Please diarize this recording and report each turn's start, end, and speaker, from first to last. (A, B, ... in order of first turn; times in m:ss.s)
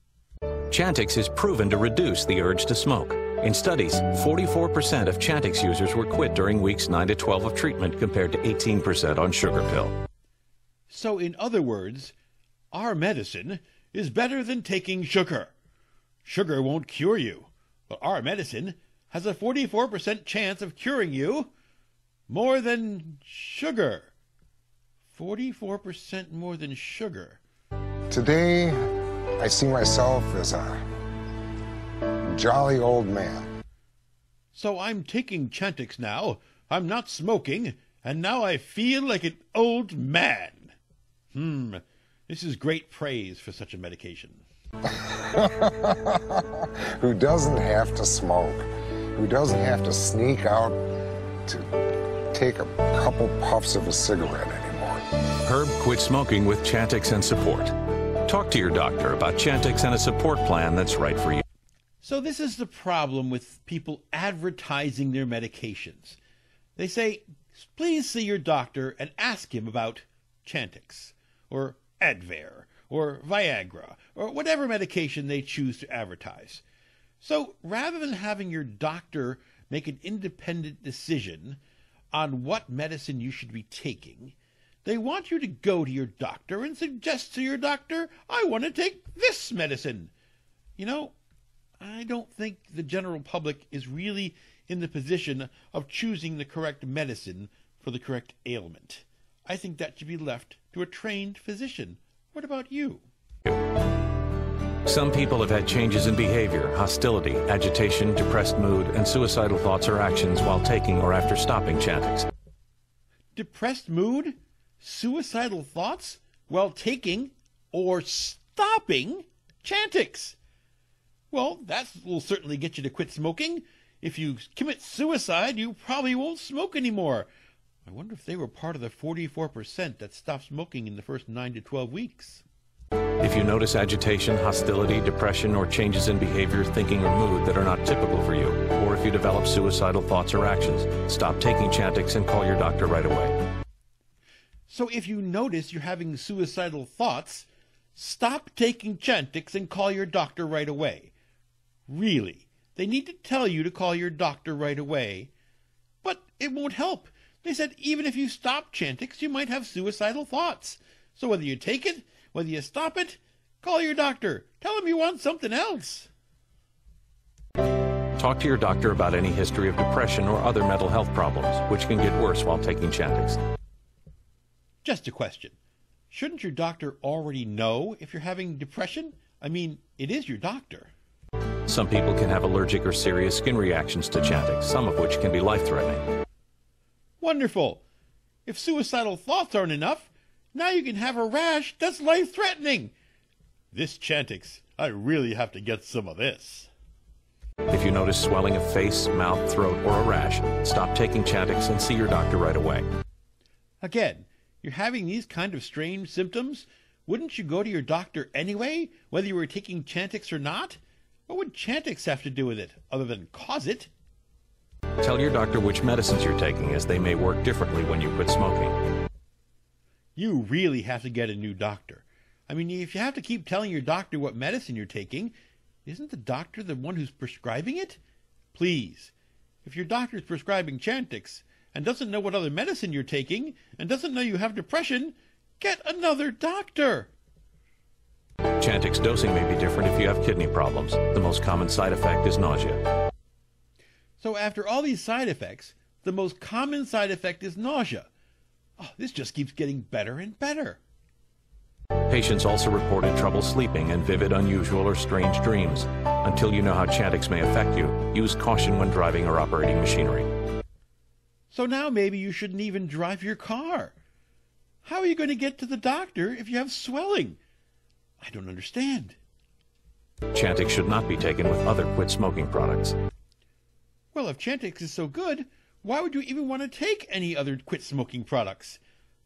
0:00.7-0:09.9 A
0:10.9-0:12.1 B
0:12.7-0:15.5 B
0:16.2-0:21.5 B
0:22.3-0:24.1 B
0:25.1-0:27.4 B
0:28.1-0:28.8 C
0:29.4-0:30.8 C
0:32.3-0:33.5 C
0:34.5-0:40.7 B
0:41.3-0:44.4 B
0:45.0-0:48.6 C
0:49.1-0:50.8 C
0:52.3-0:55.0 C
0:55.4-0:57.7 A
0:58.2-1:01.4 A
1:02.0-1:06.2 B
1:06.8-1:16.6 B
1:17.2-1:21.6 B
1:22.1-1:30.1 B
1:30.8-1:31.1 B
1:31.8-1:43.0 B
1:44.8-1:52.3 A
1:53.3-2:00.4 B
2:01.3-2:07.3 B
2:07.8-2:12.4 B
2:13.2-2:23.4 A
2:24.7-2:31.1 B
2:31.9-2:35.3 B
2:36.0-2:46.1 B
2:48.2-2:53.4 A
2:54.8-2:55.6 B
2:56.1-3:00.9 B
3:01.7-3:06.0 A
3:07.2-3:07.8 B
3:08.4-3:12.9 B
3:13.7-3:16.7 B
3:17.7-3:22.8 A
3:23.8-3:33.9 B
3:35.0-3:38.8 A
3:40.2-3:45.3 B
3:45.8-3:48.0 B
3:48.5-3:49.1 B
3:49.6-3:57.1 B
3:58.6-4:02.8 A
4:04.2-4:08.1 B
4:08.8-4:10.8 B
4:12.1-4:20.3 A
4:21.5-4:23.9 B
4:24.8-4:27.4 B
4:28.2-4:29.2 B
4:30.3-4:32.9 A
4:34.1-4:38.8 B